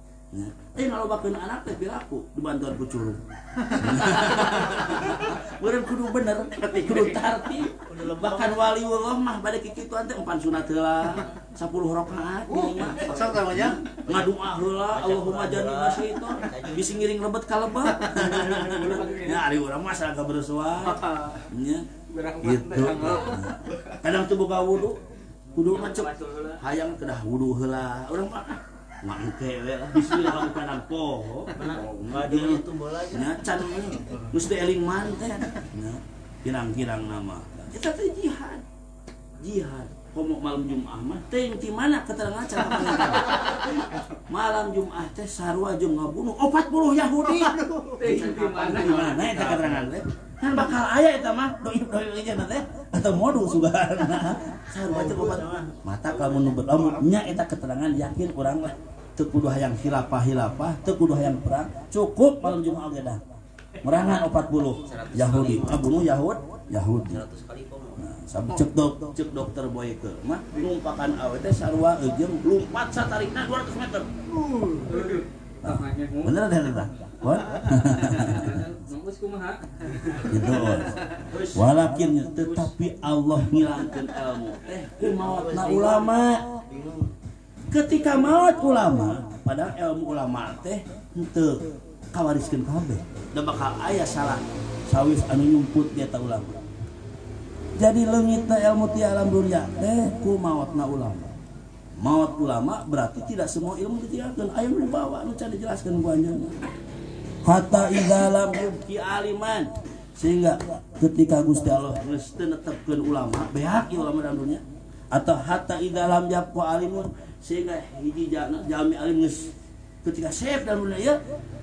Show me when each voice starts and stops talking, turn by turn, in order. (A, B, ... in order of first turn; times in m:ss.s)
0:00.3-0:21.9 A
0:06.6-0:07.3 B
0:07.8-0:08.6 C
0:13.0-0:14.3 C
0:14.9-0:17.0 C
0:18.1-0:19.4 B
0:20.8-0:21.4 B
0:22.1-0:23.5 B
0:22.4-0:25.0 A
0:25.5-0:38.6 A
0:25.6-0:26.6 B
0:31.5-0:34.3 C
0:39.4-1:03.2 A
0:47.3-0:48.3 C
0:48.0-0:49.6 B
0:54.8-0:56.8 C
1:03.8-1:07.2 A
1:04.8-1:06.1 C
1:07.1-1:08.0 C
1:08.0-1:14.1 A
1:14.7-1:16.4 B
1:15.6-1:18.6 A
1:18.0-1:20.4 B
1:20.3-1:26.4 A
1:21.3-1:21.7 C
1:25.0-1:27.1 C
1:27.7-1:31.6 A
1:32.1-1:36.6 A
1:37.8-1:41.3 A
1:42.0-1:46.5 A
1:47.4-1:59.5 A
2:00.0-2:01.2 A